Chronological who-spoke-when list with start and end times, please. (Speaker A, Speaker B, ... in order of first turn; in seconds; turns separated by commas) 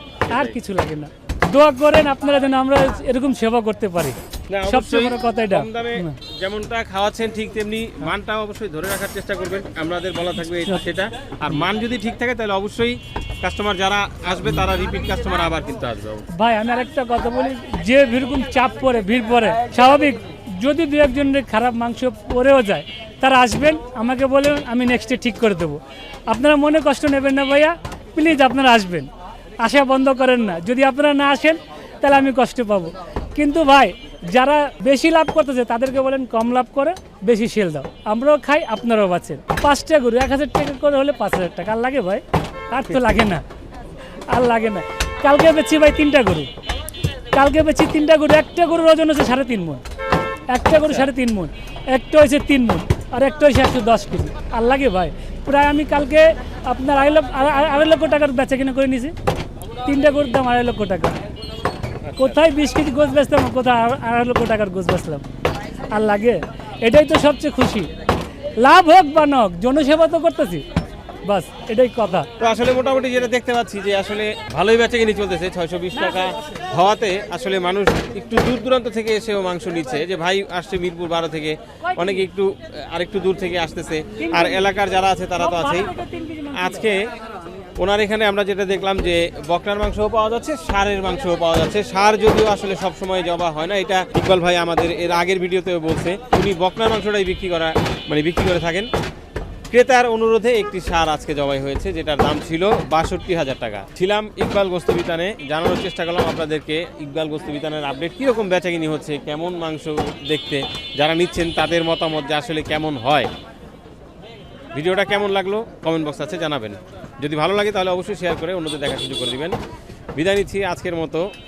Speaker A: 0.3-0.5, Speaker B: 0.3-6.1, Speaker A: 4.5-16.2, Speaker B: 10.4-10.8, Speaker B: 16.3-29.1, Speaker B: 29.6-43.4, Speaker B: 44.3-46.5, Speaker B: 47.3-49.8, Speaker B: 50.5-59.1, Speaker A: 50.8-51.1, Speaker B: 59.9-61.2, Speaker A: 62.0-62.4, Speaker B: 62.2-65.2, Speaker B: 65.9-67.9, Speaker B: 68.6-70.6, Speaker B: 71.2-72.2, Speaker A: 72.4-85.9, Speaker B: 75.9-76.2, Speaker B: 81.9-82.2, Speaker B: 84.2-84.7, Speaker B: 85.4-86.9, Speaker A: 86.5-87.0, Speaker A: 87.8-98.9, Speaker A: 99.7-113.3, Speaker A: 114.8-119.5, Speaker A: 120.2-121.2